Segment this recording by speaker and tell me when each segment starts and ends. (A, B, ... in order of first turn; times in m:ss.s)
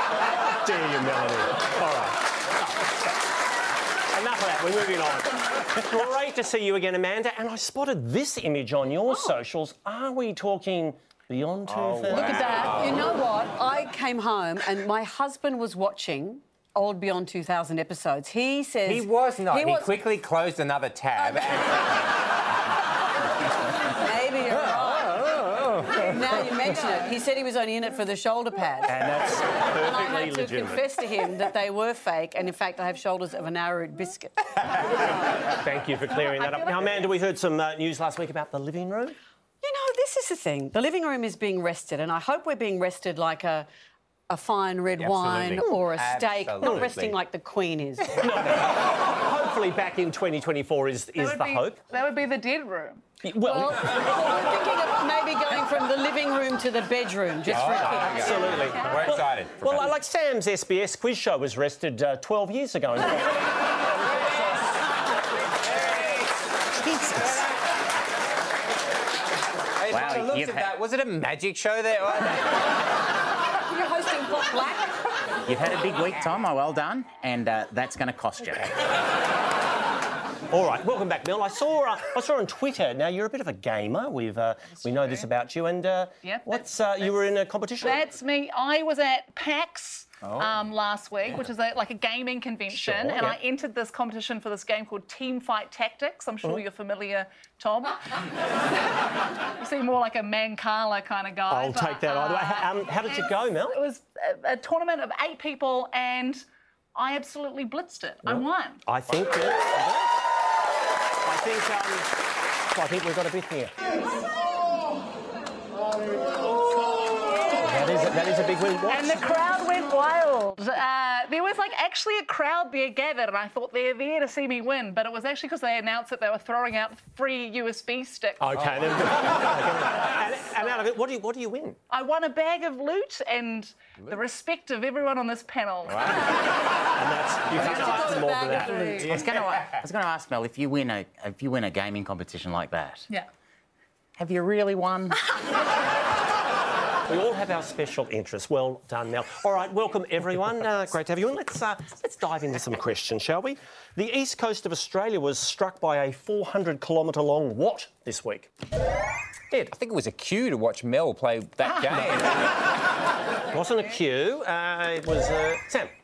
0:00.5-0:03.0 A
0:04.1-0:12.8 A
0:11.7-0:13.0 B
0:12.1-0:19.9 C
0:18.8-0:21.8 B
0:23.8-0:25.4 C
0:24.7-0:25.7 B
0:25.9-0:29.1 C
0:28.9-0:30.8 A
0:29.8-0:34.5 C
0:35.5-0:39.2 A
0:39.6-0:43.7 C
0:44.3-0:48.2 C
0:45.0-0:47.1 B
0:48.2-0:51.8 A
0:51.2-0:54.1 D
0:53.2-0:53.9 A
0:53.8-0:58.6 C
0:57.5-0:59.9 B
0:57.8-1:03.4 A
1:05.8-1:06.1 B
1:07.1-1:07.4 B
1:09.8-1:12.6 B
1:09.9-1:10.7 E
1:13.7-1:15.0 C
1:15.4-1:18.7 E
1:20.5-1:28.1 A
1:26.2-1:27.1 D
1:27.8-1:38.3 D
1:32.7-1:33.4 A
1:39.6-1:46.4 D
1:41.5-1:43.8 A
1:46.9-1:48.8 D
1:48.2-1:50.1 A
1:51.2-1:52.2 A
1:52.7-1:53.8 A
1:57.5-1:59.3 A
1:58.9-2:08.6 D
2:08.4-2:11.8 A
2:11.9-2:16.2 D
2:15.9-2:16.2 B
2:17.0-2:18.9 A
2:17.6-2:19.2 C
2:18.5-2:18.9 D
2:19.0-2:23.1 E
2:19.1-2:19.7 B
2:24.2-2:25.2 E
2:27.1-2:38.5 A
2:39.5-2:42.3 B
2:43.5-2:45.9 A